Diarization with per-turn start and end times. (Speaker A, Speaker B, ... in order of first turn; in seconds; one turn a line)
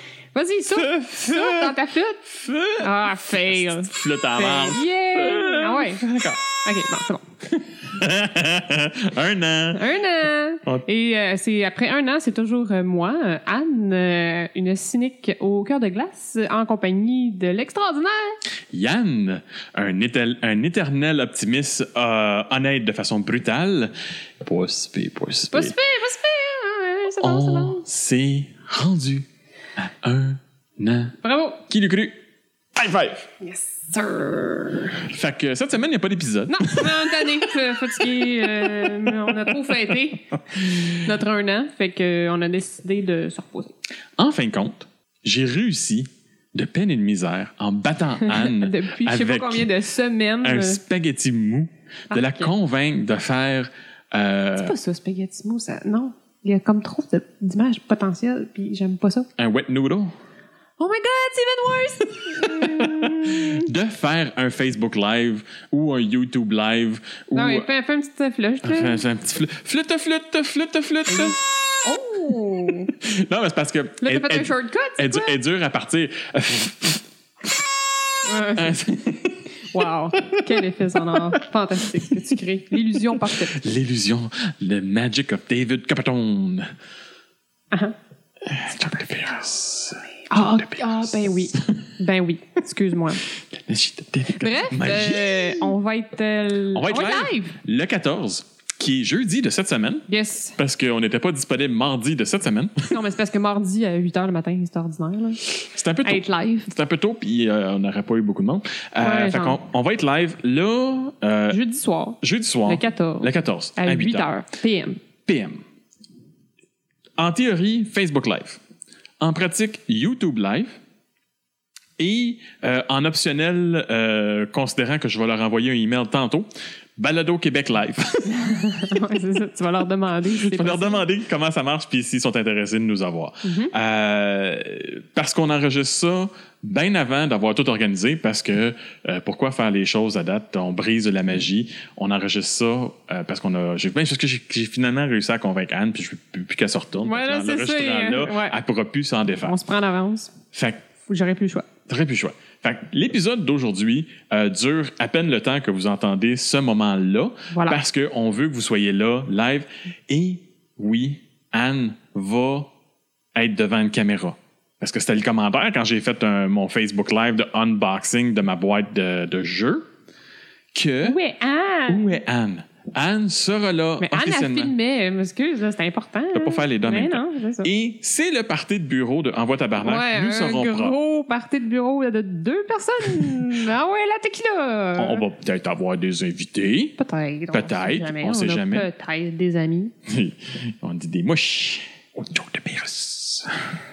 Speaker A: 0.3-7.3
Speaker B: 0.7-1.8
Speaker B: 2.3-6.5
Speaker B: 7.5-9.9
Speaker A: 9.7-18.4
Speaker B: 18.7-25.8
Speaker A: 25.5-27.8
Speaker B: 27.2-29.2
Speaker B: 29.8-31.2
Speaker A: 31.2-31.6
Speaker B: 31.7-32.1
Speaker B: 32.8-33.3
Speaker A: 33.4-35.1
Speaker B: 35.0-39.8
Speaker A: 36.5-43.7
Speaker B: 44.2-49.7
Speaker A: 48.2-50.8
Speaker B: 50.4-54.8
Speaker A: 52.1-52.5
Speaker A: 54.6-59.3
Speaker B: 59.4-60.1
Speaker A: 60.8-63.7
Speaker B: 62.4-67.7
Speaker A: 67.3-69.0
Speaker B: 68.6-71.4
Speaker A: 71.1-72.9
Speaker B: 72.9-77.6
Speaker A: 74.0-75.4
Speaker A: 78.2-78.8
Speaker B: 78.6-80.5
Speaker A: 79.7-83.6
Speaker B: 83.2-86.7
Speaker B: 88.5-91.6
Speaker A: 90.3-93.2
Speaker B: 93.5-95.7
Speaker A: 94.3-97.6
Speaker B: 96.7-100.1
Speaker A: 100.1-100.6
Speaker B: 100.6-102.9
Speaker A: 102.9-105.4
Speaker B: 105.6-111.6
Speaker A: 106.0-106.7
Speaker A: 109.0-109.6
Speaker A: 111.5-115.0
Speaker B: 112.2-114.3
Speaker B: 115.3-115.6
Speaker B: 117.2-118.6
Speaker B: 119.2-120.8
Speaker B: 122.0-128.3
Speaker A: 128.3-131.1
Speaker B: 130.3-149.6
Speaker A: 133.4-133.7
Speaker A: 147.0-148.6
Speaker A: 149.4-150.3
Speaker B: 150.5-150.8
Speaker A: 151.1-151.7
Speaker B: 151.9-162.7
Speaker A: 157.5-157.8
Speaker B: 163.4-169.8
Speaker B: 170.7-171.2
Speaker A: 171.0-172.2
Speaker B: 171.9-174.7
Speaker A: 174.0-177.7
Speaker B: 176.3-180.9
Speaker A: 179.8-185.2
Speaker B: 185.0-187.0
Speaker A: 187.0-189.9
Speaker B: 187.5-188.9
Speaker B: 190.1-193.5